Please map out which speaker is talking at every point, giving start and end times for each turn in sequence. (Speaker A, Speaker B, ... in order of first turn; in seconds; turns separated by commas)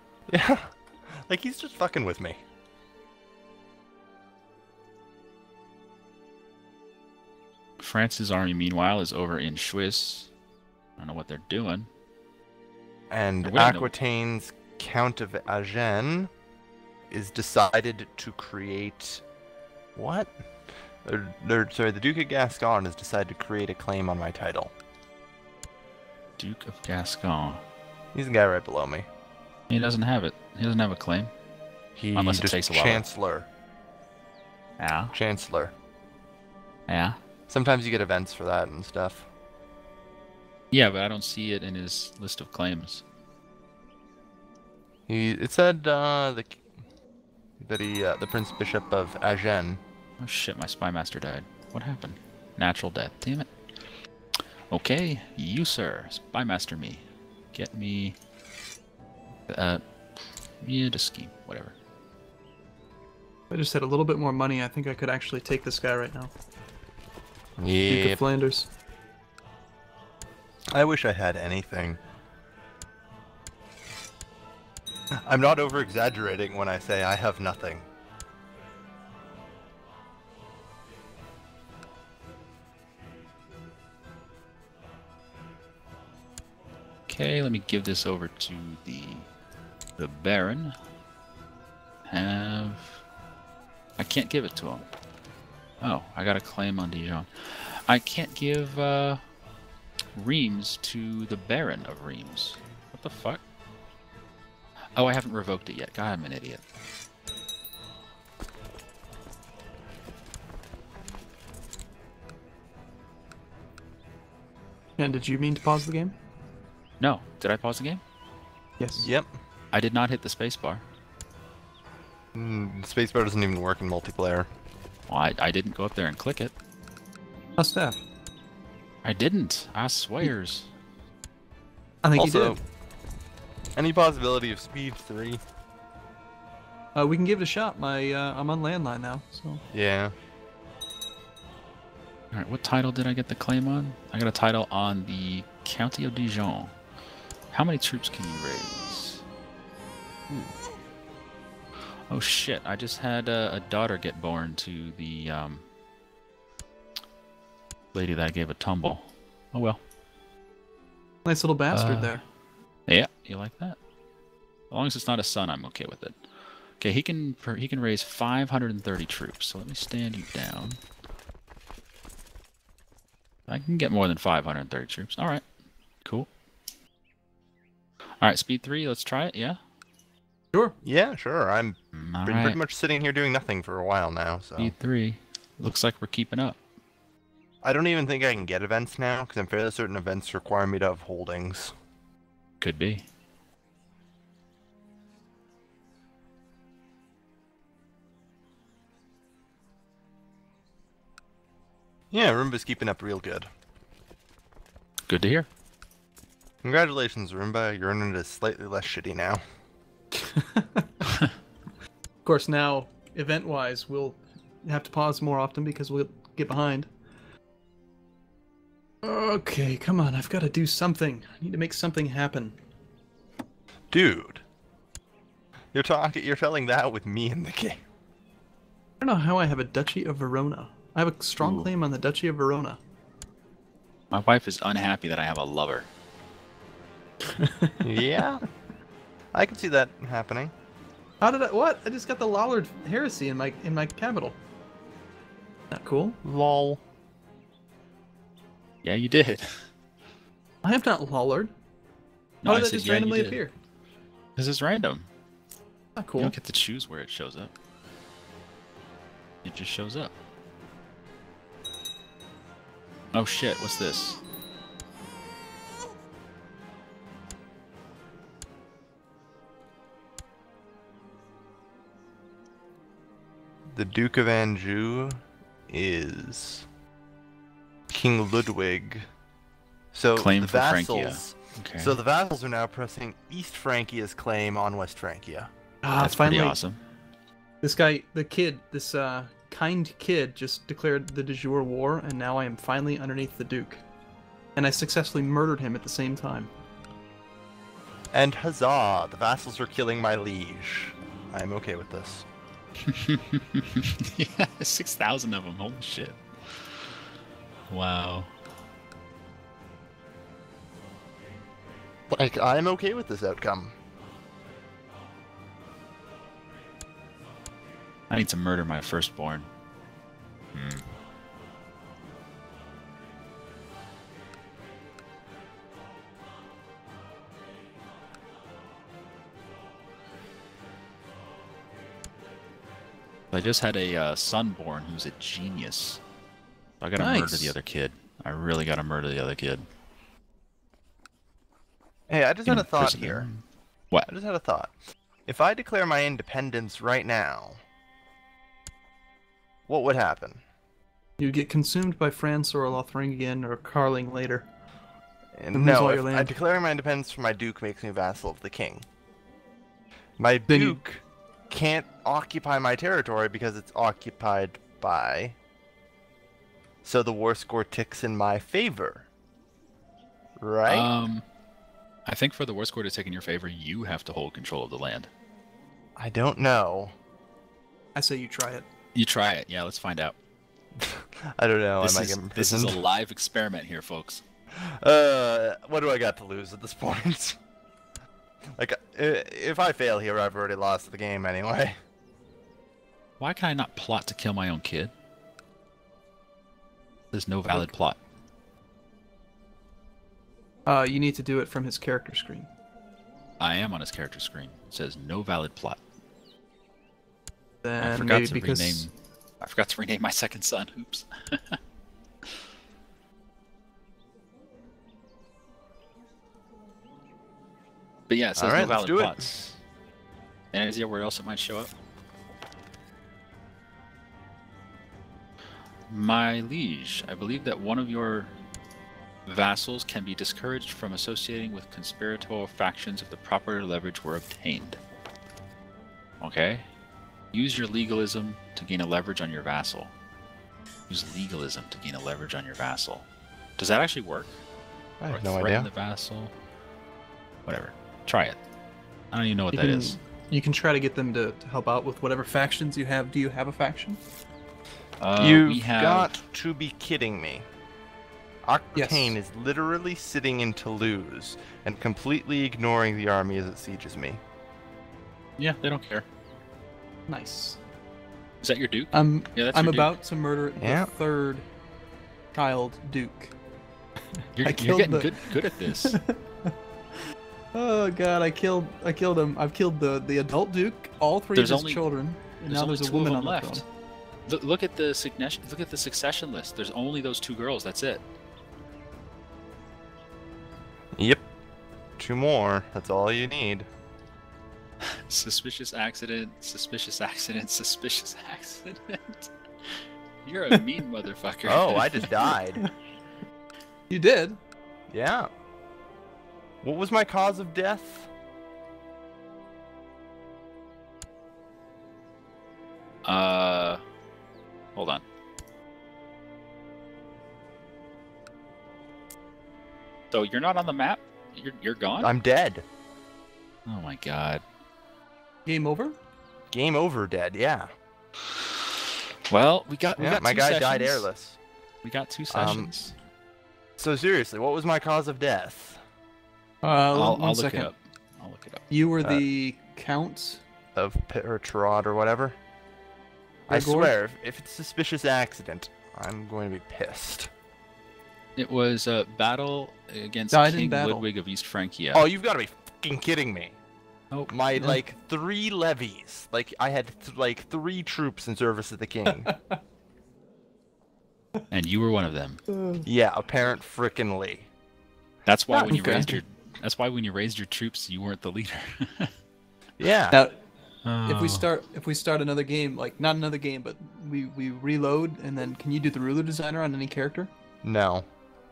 Speaker A: 0.3-2.4, Speaker B: 7.8-10.3, Speaker B: 11.0-11.9, Speaker A: 13.1-16.3, Speaker B: 13.4-13.9, Speaker A: 17.1-19.2, Speaker A: 20.0-20.3, Speaker A: 21.0-24.7, Speaker B: 26.4-27.6, Speaker A: 28.1-29.1, Speaker B: 29.7-31.3, Speaker A: 32.0-33.5, Speaker B: 32.1-33.1, Speaker B: 34.8-35.1, Speaker A: 35.1-35.7, Speaker B: 36.9-37.2, Speaker A: 37.5-39.3, Speaker B: 40.7-43.0, Speaker A: 45.1-46.6, Speaker A: 47.6-49.8, Speaker B: 50.2-53.5, Speaker B: 54.7-58.2, Speaker B: 59.5-59.8, Speaker B: 60.6-61.8, Speaker C: 63.5-66.3, Speaker A: 67.6-68.2, Speaker C: 67.9-68.7, Speaker A: 70.7-72.0, Speaker A: 75.2-77.9, Speaker B: 87.1-89.3, Speaker B: 90.0-90.8, Speaker B: 92.1-93.0, Speaker B: 94.0-94.9, Speaker B: 95.8-99.2, Speaker B: 100.2-103.4, Speaker B: 105.0-106.6, Speaker C: 115.0-116.2, Speaker B: 117.0-118.0, Speaker C: 118.8-119.1, Speaker A: 119.0-119.3, Speaker B: 119.7-120.8, Speaker A: 122.3-124.5, Speaker B: 125.1-126.5, Speaker C: 127.6-128.0, Speaker B: 129.0-130.7, Speaker C: 132.0-132.6, Speaker A: 132.2-132.6, Speaker A: 133.8-135.4, Speaker C: 136.9-139.6, Speaker A: 139.7-140.1, Speaker B: 142.3-146.7, Speaker B: 147.5-149.2, Speaker B: 152.1-155.7, Speaker B: 157.9-159.8, Speaker C: 161.2-162.2, Speaker B: 161.7-162.2, Speaker B: 162.9-163.8, Speaker B: 164.7-166.2, Speaker B: 166.8-170.8, Speaker B: 173.5-175.4, Speaker B: 178.2-179.6, Speaker A: 180.8-184.7, Speaker B: 181.9-182.6, Speaker B: 184.6-186.6, Speaker A: 187.6-191.7, Speaker B: 192.6-193.1, Speaker A: 202.1-203.5, Speaker B: 205.1-205.5, Speaker A: 206.6-209.4, Speaker C: 210.2-210.9, Speaker C: 212.2-216.9, Speaker C: 219.0-222.6, Speaker A: 223.9-224.4, Speaker A: 225.7-227.8, Speaker C: 229.0-232.8, Speaker B: 231.4-231.7, Speaker B: 234.1-235.9, Speaker C: 237.2-238.2, Speaker A: 237.8-238.4, Speaker A: 239.3-240.5, Speaker C: 241.2-244.4, Speaker C: 245.7-246.2, Speaker A: 246.2-246.8, Speaker B: 248.8-249.5, Speaker C: 250.6-251.5, Speaker B: 252.4-253.4, Speaker C: 252.4-253.5, Speaker B: 254.4-255.1, Speaker C: 256.0-256.4, Speaker B: 256.2-257.5, Speaker B: 259.4-260.1, Speaker B: 263.1-264.2, Speaker A: 273.7-276.7, Speaker A: 277.9-279.1, Speaker A: 279.9-285.5, Speaker B: 280.1-282.0, Speaker C: 285.8-286.6, Speaker B: 285.9-286.8, Speaker C: 287.6-293.8, Speaker C: 294.6-296.5, Speaker A: 298.1-302.3, Speaker B: 302.9-306.9, Speaker B: 307.7-308.3, Speaker A: 312.1-313.8, Speaker B: 318.1-319.5, Speaker B: 320.5-320.9, Speaker B: 333.3-336.0, Speaker B: 336.8-339.7, Speaker C: 337.0-337.6, Speaker A: 342.1-343.3, Speaker B: 342.5-344.1, Speaker A: 344.1-344.7, Speaker A: 345.3-347.6, Speaker A: 349.7-350.4, Speaker C: 351.2-354.5, Speaker A: 355.4-358.9, Speaker C: 355.5-356.3, Speaker A: 360.2-365.4, Speaker C: 360.5-360.8, Speaker A: 366.8-369.1, Speaker A: 370.4-370.9, Speaker B: 370.7-371.2, Speaker B: 372.1-375.1, Speaker A: 376.0-376.9, Speaker C: 377.9-378.7, Speaker B: 378.9-380.2, Speaker A: 380.8-382.8, Speaker B: 381.8-384.2, Speaker A: 384.6-387.4, Speaker A: 388.6-391.8, Speaker B: 393.2-394.9, Speaker B: 397.1-398.0, Speaker C: 400.7-402.5, Speaker B: 403.4-405.8, Speaker C: 407.6-408.9, Speaker B: 407.8-411.6, Speaker B: 418.1-419.6, Speaker A: 418.4-419.2, Speaker B: 420.5-421.7, Speaker B: 425.9-428.3, Speaker B: 429.3-434.8, Speaker B: 436.2-436.6, Speaker B: 437.3-439.9, Speaker B: 440.9-443.1, Speaker B: 443.6-444.4, Speaker A: 445.0-445.7, Speaker B: 445.1-446.3, Speaker B: 447.5-448.4, Speaker B: 449.1-450.0, Speaker C: 449.5-454.0, Speaker B: 455.0-456.1, Speaker A: 455.2-457.5, Speaker A: 458.5-464.2, Speaker C: 458.8-459.1, Speaker B: 465.4-466.1, Speaker C: 467.1-467.6, Speaker B: 468.4-470.0, Speaker C: 468.9-471.4, Speaker A: 470.6-470.9, Speaker C: 472.3-473.4, Speaker B: 474.4-476.0, Speaker C: 474.4-476.5, Speaker C: 477.5-483.6, Speaker B: 481.4-481.9, Speaker B: 482.5-483.6, Speaker B: 484.3-488.0, Speaker A: 491.0-491.2, Speaker A: 492.0-493.7, Speaker B: 495.1-499.3, Speaker B: 500.2-502.1, Speaker A: 501.4-502.6, Speaker C: 502.2-502.7, Speaker C: 503.9-504.4, Speaker A: 504.9-505.3, Speaker A: 506.6-508.1, Speaker B: 513.0-513.8, Speaker B: 514.8-515.0, Speaker B: 520.1-522.1, Speaker A: 522.0-522.6, Speaker B: 523.6-524.4, Speaker C: 525.5-526.0, Speaker A: 526.5-527.7, Speaker B: 529.3-531.1, Speaker A: 530.0-531.4, Speaker B: 531.8-532.9, Speaker A: 532.3-532.7, Speaker A: 533.8-535.8, Speaker C: 536.6-537.7, Speaker B: 536.9-538.6, Speaker C: 538.7-540.4, Speaker A: 540.8-542.4, Speaker C: 543.5-543.9, Speaker A: 543.5-547.3, Speaker B: 548.4-552.1, Speaker C: 550.3-551.0, Speaker A: 551.9-553.6, Speaker B: 554.1-554.4, Speaker A: 554.3-559.3, Speaker C: 554.5-554.8, Speaker C: 559.2-559.6, Speaker B: 561.5-562.4, Speaker A: 562.8-564.5, Speaker B: 565.3-569.1, Speaker C: 565.5-566.2, Speaker A: 569.8-570.2, Speaker C: 570.1-570.4, Speaker B: 570.9-571.5, Speaker C: 571.0-577.3, Speaker A: 577.6-578.0